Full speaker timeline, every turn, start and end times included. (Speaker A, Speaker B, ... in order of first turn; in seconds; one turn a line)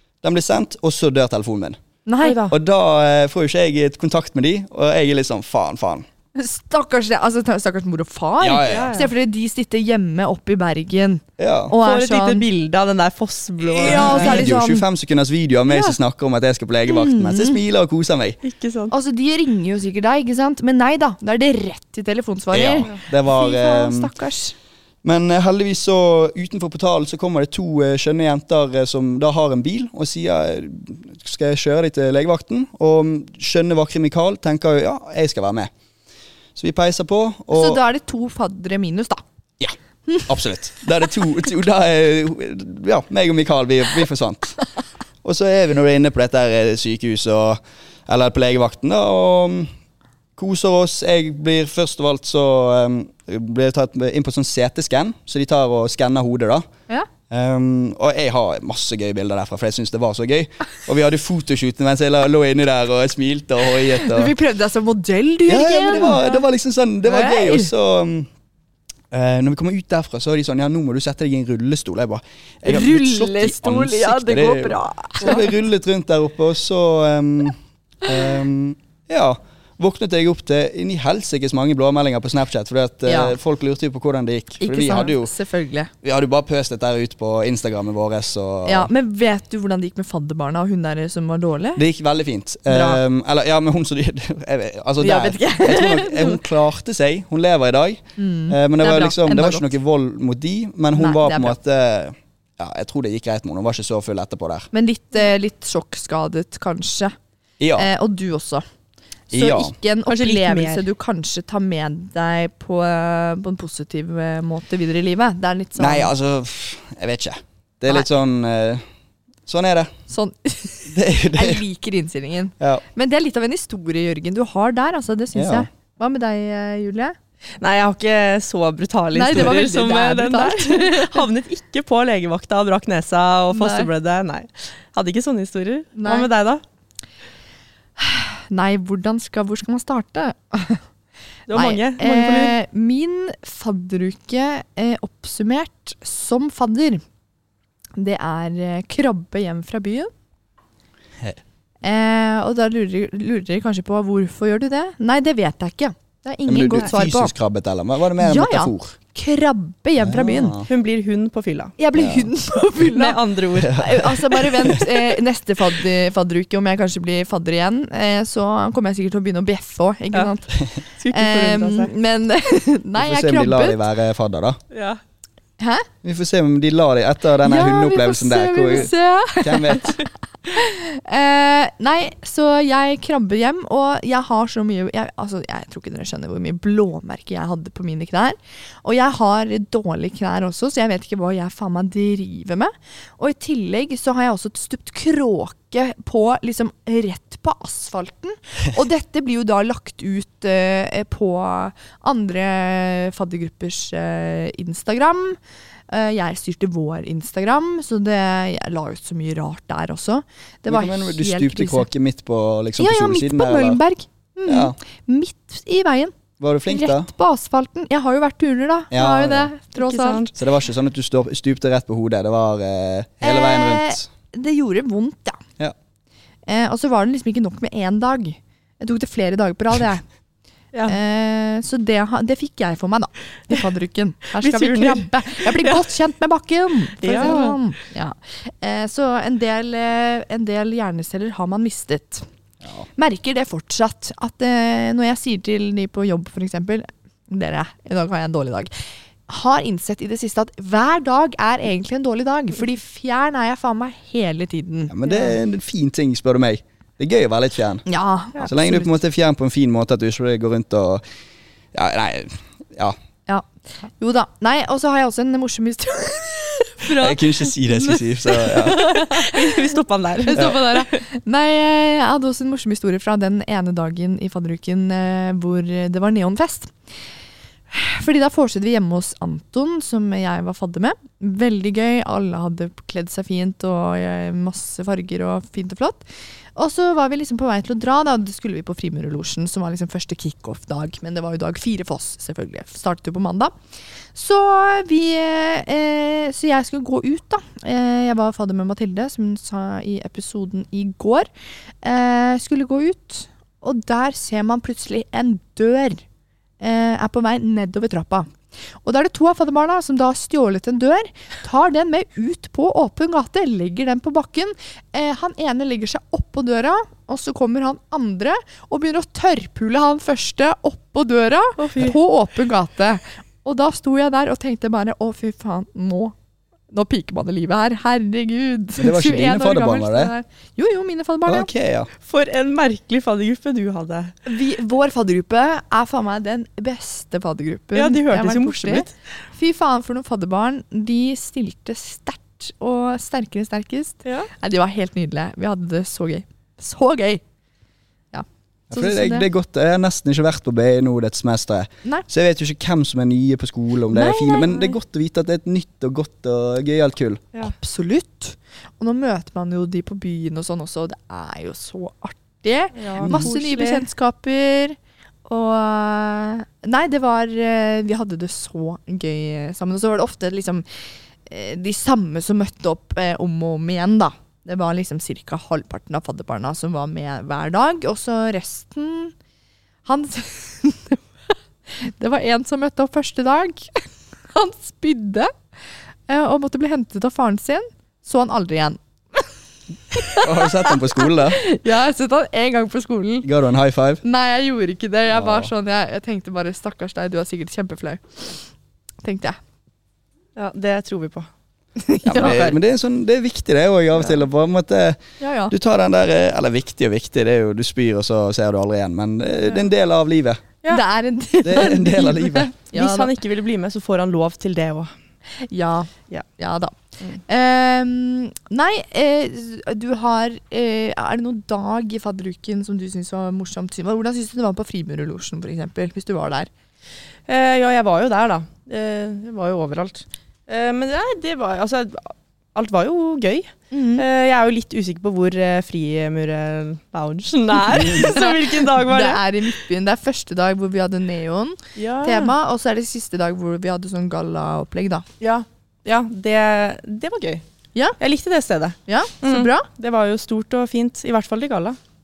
Speaker A: 0.2-1.8
Speaker B: 2.0-2.4
Speaker C: 2.2-2.5
Speaker A: 2.5-6.0
Speaker B: 6.3-12.4
Speaker A: 8.4-8.9
Speaker C: 8.6-9.1
Speaker A: 11.4-11.7
Speaker C: 11.8-14.5
Speaker A: 13.7-18.4
Speaker B: 13.8-14.8
Speaker B: 15.7-15.9
Speaker B: 16.9-17.6
Speaker C: 18.4-18.9
Speaker B: 18.9-24.5
Speaker A: 22.5-24.1
Speaker A: 25.0-35.7
Speaker A: 36.5-37.8
Speaker B: 37.5-39.2
Speaker A: 40.3-44.6
Speaker A: 45.2-49.7
Speaker A: 50.4-56.6
Speaker A: 57.3-64.3
Speaker B: 63.9-66.4
Speaker A: 65.5-68.3
Speaker B: 67.0-67.7
Speaker A: 69.1-85.3
Speaker B: 72.6-75.5
Speaker B: 83.0-83.4
Speaker B: 84.6-85.9
Speaker A: 86.0-88.9
Speaker B: 88.7-91.8
Speaker A: 91.8-104.7
Speaker B: 92.7-93.0
Speaker B: 95.0-96.4
Speaker B: 98.2-99.8
Speaker B: 100.9-101.5
Speaker B: 104.7-107.1
Speaker A: 107.6-107.9
Speaker B: 107.8-108.6
Speaker A: 109.3-109.7
Speaker B: 109.3-116.1
Speaker C: 110.1-110.8
Speaker A: 115.8-118.8
Speaker A: 119.5-119.9
Speaker B: 120.1-127.2
Speaker A: 120.9-121.6
Speaker A: 125.3-125.7
Speaker C: 127.6-136.6
Speaker B: 129.1-131.2
Speaker B: 133.5-133.9
Speaker B: 135.9-136.3
Speaker B: 138.0-140.8
Speaker C: 141.5-142.5
Speaker B: 141.5-147.0
Speaker B: 148.0-150.1
Speaker B: 151.8-157.3
Speaker A: 156.5-158.9
Speaker B: 158.2-160.6
Speaker A: 160.0-160.7
Speaker C: 160.7-161.7
Speaker B: 161.8-173.8
Speaker A: 161.9-162.3
Speaker C: 162.9-164.4
Speaker A: 163.6-164.8
Speaker C: 171.0-171.9
Speaker A: 172.9-174.6
Speaker C: 174.7-175.0
Speaker B: 175.6-175.9
Speaker A: 176.0-180.0
Speaker B: 177.4-205.4
Speaker B: 205.9-211.9
Speaker A: 210.7-213.8
Speaker B: 212.8-216.2
Speaker A: 214.5-214.8
Speaker A: 216.4-217.1
Speaker B: 216.7-220.3
Speaker A: 218.9-219.5
Speaker C: 219.7-220.3
Speaker A: 220.3-224.1
Speaker B: 223.2-225.4
Speaker B: 226.5-230.0
Speaker B: 230.9-242.2
Speaker C: 234.3-235.8
Speaker C: 237.0-237.6
Speaker B: 242.9-248.7
Speaker B: 249.3-255.3
Speaker A: 254.9-257.8
Speaker B: 257.9-258.9
Speaker A: 258.4-261.0
Speaker A: 261.7-262.9
Speaker B: 263.3-269.6
Speaker A: 266.9-268.8
Speaker C: 268.8-271.0
Speaker B: 270.3-276.7
Speaker A: 270.3-270.6
Speaker B: 277.7-286.0
Speaker B: 286.6-293.5
Speaker B: 294.1-301.3
Speaker B: 301.8-306.0
Speaker B: 306.6-308.3
Speaker B: 308.8-326.1
Speaker C: 321.6-321.9
Speaker B: 326.7-331.5
Speaker A: 328.8-330.1
Speaker A: 331.3-331.9
Speaker C: 332.0-334.1
Speaker B: 334.2-347.2
Speaker C: 337.7-338.9
Speaker C: 344.0-344.3
Speaker B: 348.1-349.3
Speaker A: 348.7-357.3
Speaker B: 353.9-354.8
Speaker B: 357.4-370.6
Speaker C: 362.8-363.9
Speaker B: 371.2-379.1
Speaker B: 379.8-381.0
Speaker B: 381.7-385.3
Speaker B: 386.1-389.3
Speaker B: 389.9-393.3
Speaker A: 390.2-391.4
Speaker A: 393.2-394.0
Speaker B: 394.0-398.4
Speaker A: 395.1-395.5
Speaker B: 399.0-399.4
Speaker C: 400.4-401.3
Speaker B: 401.8-402.6
Speaker A: 402.1-410.4
Speaker B: 405.2-405.5
Speaker B: 410.7-413.1
Speaker A: 411.4-412.5
Speaker C: 412.7-414.9
Speaker B: 415.4-426.5
Speaker C: 427.3-439.5
Speaker B: 433.7-434.0
Speaker B: 437.7-445.1
Speaker C: 441.8-442.3
Speaker C: 445.2-447.4
Speaker C: 448.0-451.8
Speaker B: 448.9-449.7